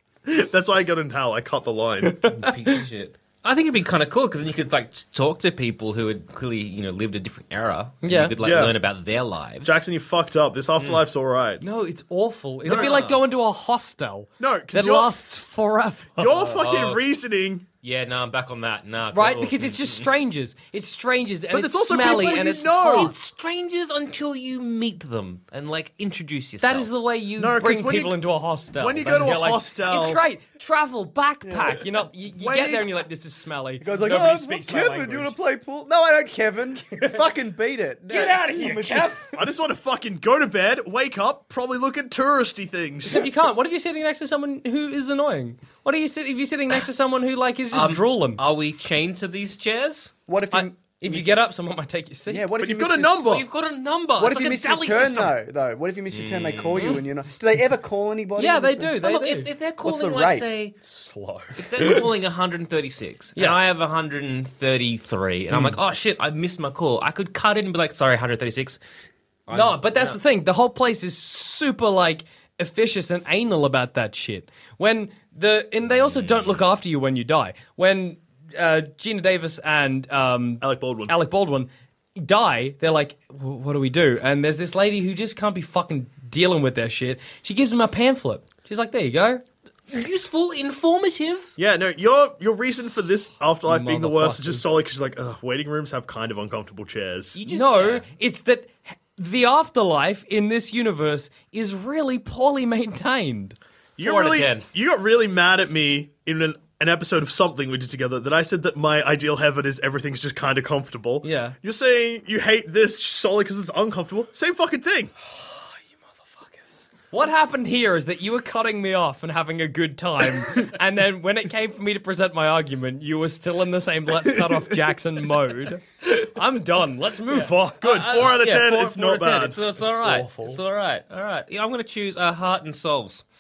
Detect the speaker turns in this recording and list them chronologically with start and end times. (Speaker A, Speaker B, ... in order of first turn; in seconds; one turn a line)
Speaker A: 0.3-2.3
Speaker B: 2.1-2.8
Speaker C: 2.3-9.8
Speaker B: 8.0-8.3
Speaker A: 8.4-8.8
Speaker A: 9.6-11.6
Speaker B: 11.6-16.4
Speaker A: 12.7-13.0
Speaker C: 12.7-13.2
Speaker A: 14.4-15.2
Speaker A: 16.2-17.7
Speaker C: 16.5-17.0
Speaker C: 17.8-20.1
Speaker B: 19.1-23.1
Speaker A: 21.5-23.1
Speaker C: 22.8-26.9
Speaker B: 26.6-35.4
Speaker A: 27.4-28.2
Speaker A: 28.8-30.2
Speaker D: 31.4-31.8
Speaker A: 32.4-33.0
Speaker D: 33.8-39.3
Speaker B: 38.1-39.4
Speaker A: 39.4-43.3
Speaker B: 43.1-48.4
Speaker C: 47.7-50.1
Speaker D: 50.3-51.4
Speaker B: 50.5-52.5
Speaker D: 52.3-53.3
Speaker A: 52.6-53.5
Speaker C: 53.2-55.4
Speaker D: 54.2-59.0
Speaker C: 56.1-57.0
Speaker B: 56.8-57.0
Speaker B: 58.4-59.5
Speaker C: 59.0-60.8
Speaker D: 59.8-60.5
Speaker B: 60.8-62.0
Speaker C: 61.6-68.8
Speaker B: 65.5-65.8
Speaker C: 69.5-70.2
Speaker B: 69.5-89.4
Speaker C: 75.9-76.6
Speaker A: 80.6-81.2
Speaker C: 89.9-91.5
Speaker A: 91.6-97.4
Speaker B: 93.7-94.7
Speaker C: 97.4-98.1
Speaker B: 97.5-103.6
Speaker A: 104.0-115.1
Speaker C: 104.0-104.7
Speaker B: 111.2-111.5
Speaker B: 115.2-128.2
Speaker A: 127.8-129.6
Speaker C: 127.8-133.2
Speaker B: 130.0-130.6